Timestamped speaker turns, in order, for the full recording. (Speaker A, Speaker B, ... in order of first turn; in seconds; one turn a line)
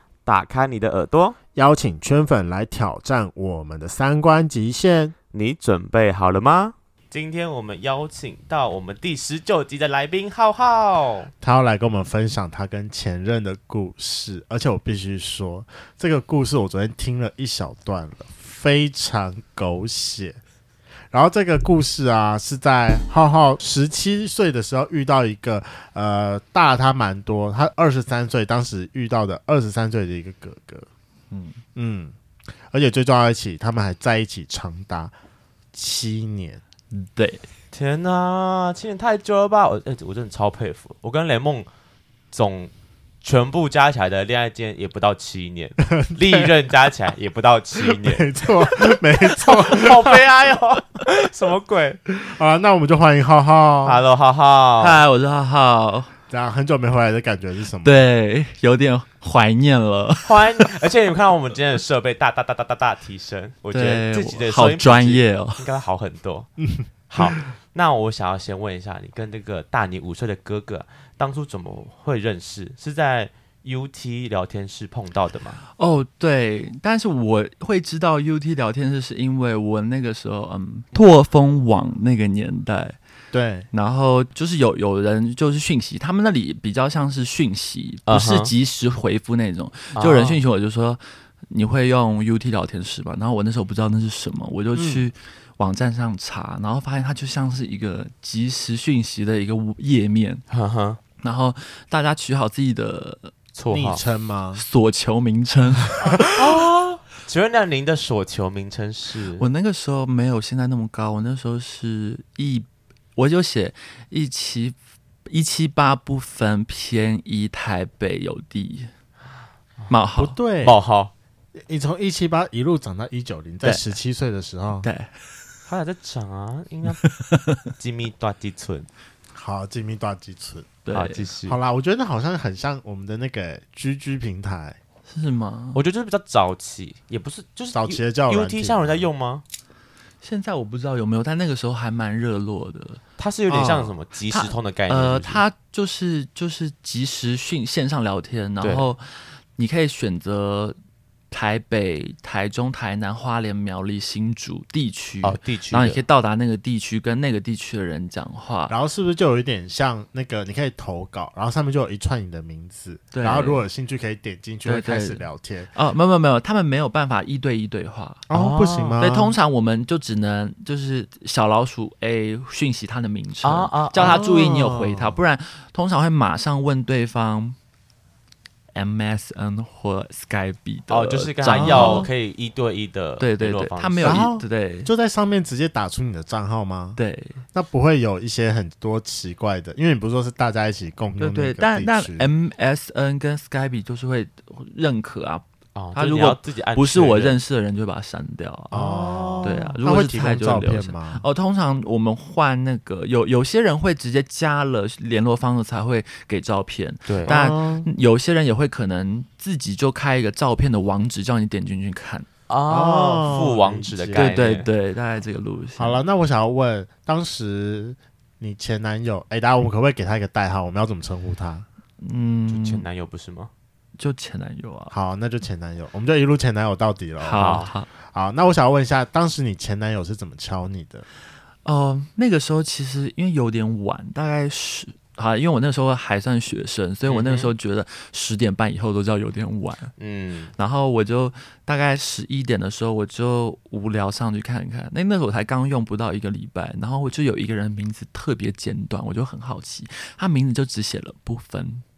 Speaker A: 0.3-1.4
Speaker B: 1.6-5.2
Speaker A: 5.3-11.3
Speaker B: 11.4-20.4
Speaker B: 21.1-30.9
Speaker C: 31.3-31.6
Speaker B: 31.8-35.1
Speaker B: 35.7-36.6
Speaker C: 36.9-37.5
Speaker A: 37.7-41.7
Speaker A: 42.3-42.7
Speaker A: 43.2-52.0
Speaker B: 45.9-46.5
Speaker B: 47.8-50.2
Speaker B: 52.2-54.0
Speaker A: 53.8-55.0
Speaker C: 54.8-56.1
Speaker B: 56.3-58.0
Speaker C: 57.8-60.7
Speaker A: 60.2-66.5
Speaker C: 63.7-65.7
Speaker B: 66.7-67.4
Speaker A: 67.1-75.6
Speaker C: 75.7-83.0
Speaker B: 83.3-83.7
Speaker C: 83.7-100.4
Speaker A: 88.1-88.5
Speaker A: 90.0-90.4
Speaker B: 94.7-95.0
Speaker A: 100.5-101.0
Speaker C: 101.2-103.3
Speaker A: 103.5-104.0
Speaker B: 103.7-104.6
Speaker C: 104.6-106.4
Speaker A: 106.1-109.5
Speaker C: 109.4-118.9
Speaker C: 119.9-120.4
Speaker B: 120.2-120.8
Speaker A: 120.6-121.1
Speaker B: 121.5-124.9
Speaker C: 123.6-123.9
Speaker C: 124.8-125.6
Speaker A: 125.7-127.1
Speaker C: 127.1-127.7
Speaker A: 127.8-128.9
Speaker B: 129.3-130.8
Speaker C: 130.8-131.3
Speaker A: 130.9-131.6
Speaker B: 131.5-134.8
Speaker C: 135.1-135.8
Speaker A: 135.8-139.4
Speaker B: 137.7-139.1
Speaker C: 140.2-143.0
Speaker A: 143.2-145.4
Speaker B: 143.5-143.9
Speaker C: 144.3-150.8
Speaker A: 148.6-148.9
Speaker C: 151.3-158.8
Speaker A: 155.2-156.0
Speaker B: 158.7-165.7
Speaker C: 163.1-163.6
Speaker C: 164.7-168.3
Speaker B: 168.3-169.4
Speaker A: 168.3-169.0
Speaker C: 169.0-177.6
Speaker A: 173.4-174.2
Speaker B: 174.0-175.2
Speaker C: 178.7-182.1
Speaker A: 180.9-184.3
Speaker B: 181.4-182.1
Speaker C: 183.2-184.9
Speaker B: 184.0-187.0
Speaker C: 187.0-187.4
Speaker B: 187.5-192.3
Speaker C: 191.2-195.4
Speaker A: 195.8-197.4
Speaker C: 195.9-212.3
Speaker B: 198.7-201.2
Speaker A: 198.8-199.7
Speaker A: 207.1-207.4
Speaker B: 207.3-207.9
Speaker A: 212.5-214.7
Speaker B: 212.7-214.4
Speaker C: 214.1-216.0
Speaker B: 215.8-221.7
Speaker C: 222.0-222.9
Speaker A: 222.5-223.5
Speaker C: 224.0-224.9
Speaker B: 224.9-231.1
Speaker C: 227.2-227.9
Speaker A: 227.3-227.7
Speaker C: 231.6-239.9
Speaker A: 237.1-237.5
Speaker A: 240.0-240.5
Speaker C: 240.6-251.8